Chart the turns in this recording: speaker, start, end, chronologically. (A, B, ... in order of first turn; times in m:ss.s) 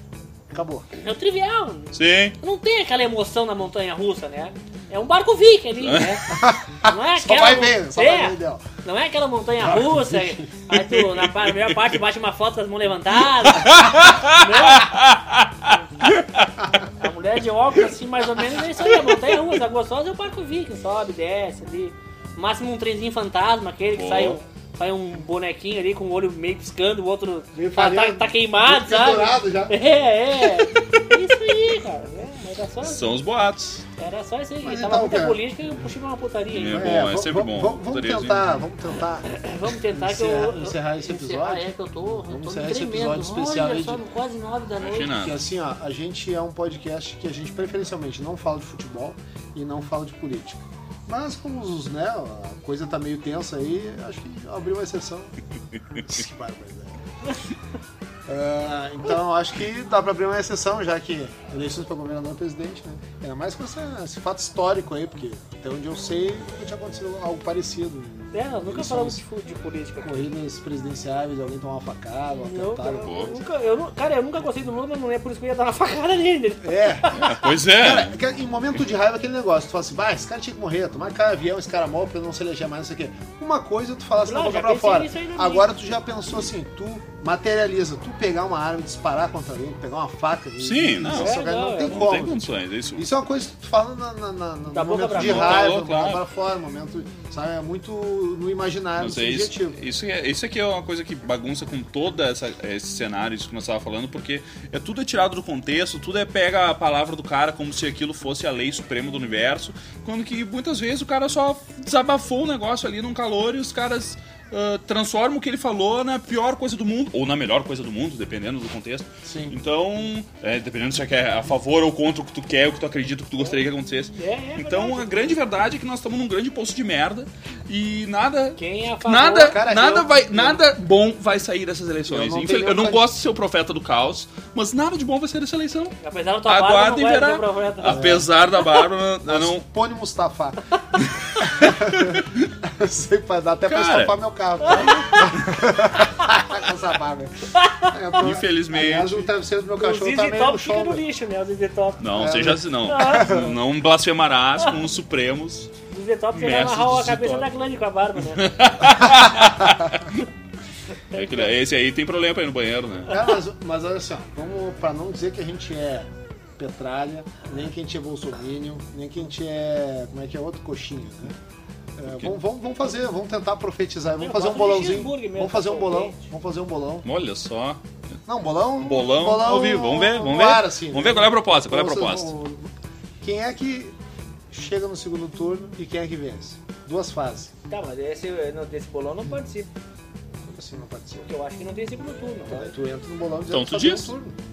0:00.5-0:00.9 A
0:01.0-0:15.0 B
0:02.0-0:02.4 C
0:05.8-0:06.2 C
0:06.3-0:08.7 A
0:09.6-0:10.5 A
0:10.8-0:11.6 C
0:13.5-0:15.5 C
0:17.0-0:33.0 B
0:24.0-0:24.4 C
0:27.5-0:29.8 A
0:32.8-0:33.8 C
0:34.0-0:36.9 B
0:34.6-0:35.4 A
0:36.5-0:38.6 C
0:36.7-0:39.3 A
0:39.3-0:45.2 B
0:39.9-0:44.0 A
0:44.8-0:45.4 C
0:45.1-0:55.3 A
0:56.0-0:57.0 A
0:58.3-1:09.2 A
1:08.3-1:10.3 B
1:10.0-1:13.3 A
1:12.5-1:17.4 B
1:13.0-1:13.4 C
1:16.6-1:39.8 A
1:17.2-1:18.2 C
1:24.2-1:25.7 B
1:30.6-1:33.1 C
1:31.1-1:32.1 B
1:34.7-1:35.7 B
1:35.1-1:36.2 C
1:39.0-2:19.7 C
1:59.2-1:59.6 A
2:04.2-2:05.4 B
2:08.6-2:09.6 B
2:09.5-2:10.6 A
2:12.1-2:13.1 A
2:16.0-2:18.1 B
2:17.9-2:18.3 A
2:19.3-2:20.6 A
2:21.0-2:22.3 C
2:21.4-2:31.0 A
2:23.7-2:24.1 C
2:24.6-2:25.3 B
2:27.5-2:28.0 B
2:28.2-2:29.3 C
2:29.8-2:32.1 B
2:32.0-2:35.7 C
2:32.1-2:33.6 A
2:32.9-2:33.3 B
2:35.9-2:38.5 B
2:36.3-2:37.5 C
2:38.4-2:40.2 C
2:41.1-2:41.5 B
2:41.1-2:43.1 C
2:43.1-2:51.4 A
2:52.0-2:57.1 A
2:54.2-2:56.2 B
2:57.0-2:57.8 C
2:58.3-3:02.7 A
2:58.8-3:02.3 C
3:03.2-3:04.0 A
3:04.5-3:07.5 A
3:07.7-3:09.7 B
3:10.4-3:11.3 A
3:11.2-3:12.7 B
3:12.5-3:14.4 A
3:13.5-3:14.1 C